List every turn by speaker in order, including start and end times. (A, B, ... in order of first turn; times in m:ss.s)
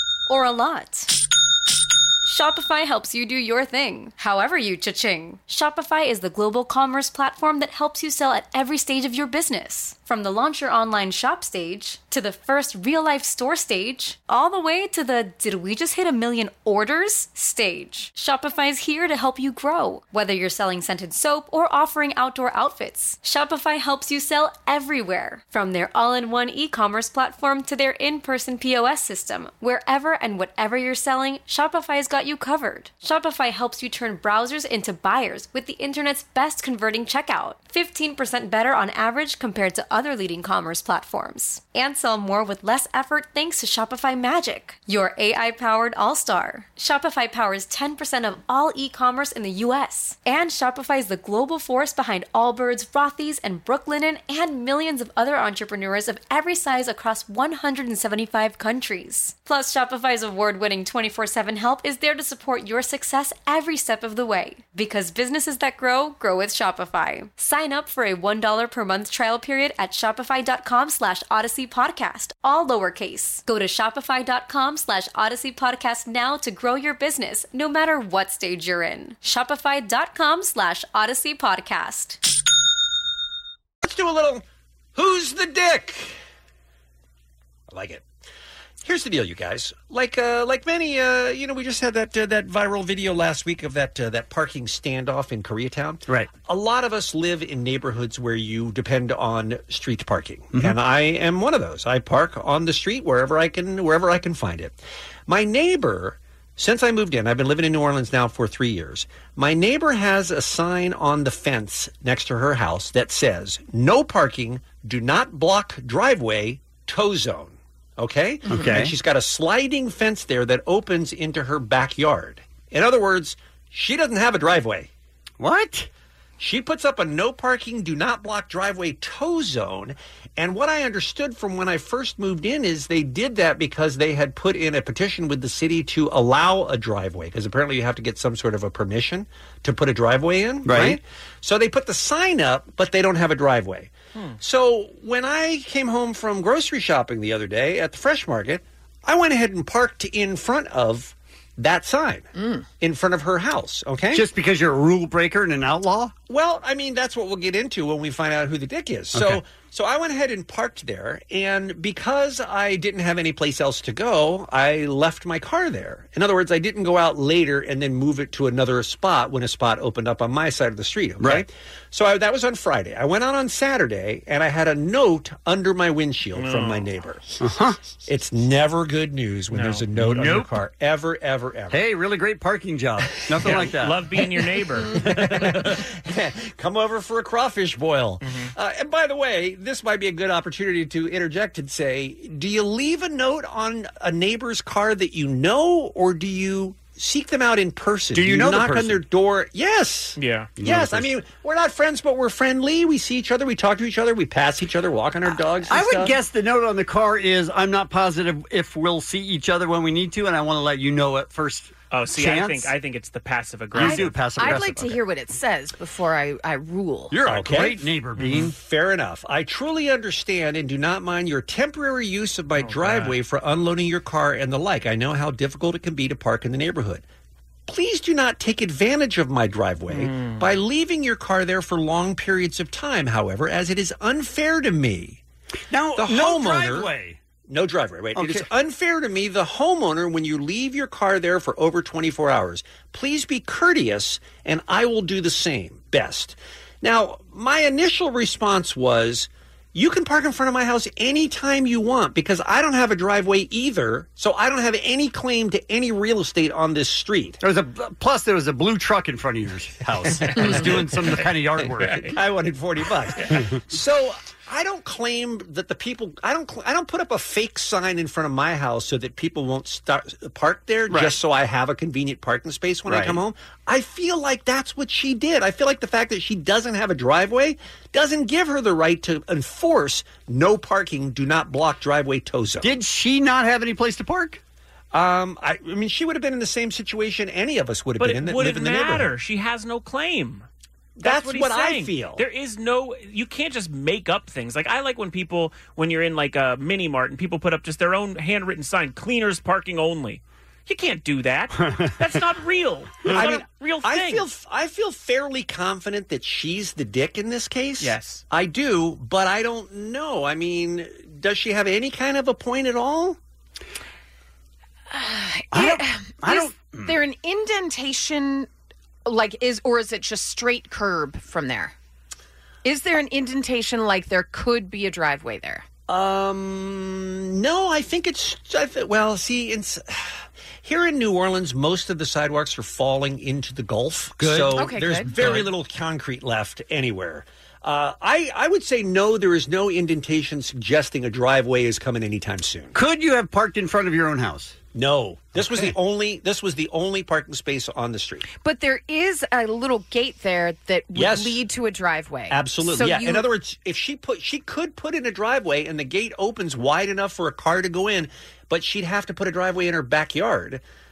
0:00.3-0:01.1 A
0:02.2-1:22.2 A
1:23.8-1:26.2 B
1:27.7-1:28.1 B
1:28.8-2:04.9 B
1:58.5-1:58.9 C
2:05.4-2:05.9 C
2:06.4-2:34.3 B
2:20.6-2:21.0 C
2:32.4-2:32.7 D
2:34.1-2:36.2 C
2:36.3-2:57.2 B
2:39.2-2:39.4 C
2:51.2-2:51.4 C
2:56.4-2:56.9 E
2:57.4-2:57.8 C
2:58.1-3:01.8 B
2:59.5-2:59.8 E
3:00.0-3:00.5 C
3:01.7-3:04.1 C
3:03.4-3:05.4 E
3:05.0-3:26.2 B
3:05.2-3:05.5 C
3:08.2-3:08.5 E
3:18.1-3:19.0 C
3:20.2-3:20.5 E
3:20.6-3:21.1 C
3:25.7-3:32.7 C
3:31.9-3:34.2 E
3:33.7-3:35.0 C
3:33.8-3:37.2 D
3:37.1-3:38.5 C
3:37.2-3:47.0 B
3:42.6-3:43.2 E
3:47.7-3:55.2 B
3:49.9-3:50.5 E
3:55.7-3:57.2 C
3:56.0-3:56.9 B
3:57.5-4:17.4 B
3:58.2-3:58.5 C
4:17.4-4:22.2 C
4:20.5-4:20.7 B
4:22.1-4:42.8 B
4:30.9-4:31.2 C
4:32.9-4:33.2 C
4:42.6-4:44.4 C
4:44.9-4:49.1 B
4:48.0-4:50.5 E
4:51.0-4:52.2 B
4:51.0-5:04.3 E
5:01.6-5:01.9 C
5:03.1-5:13.2 B
5:07.8-5:08.2 E
5:14.9-5:18.5 D
5:15.5-5:17.0 C
5:19.0-5:21.8 D
5:22.6-5:25.7 D
5:25.9-5:42.8 B
5:34.2-5:35.5 C
5:34.5-5:35.2 D
5:42.8-5:44.6 C
5:44.7-5:48.3 B
5:45.4-5:45.7 C
5:48.4-5:53.3 D
5:50.9-5:51.4 B
5:52.3-6:00.6 B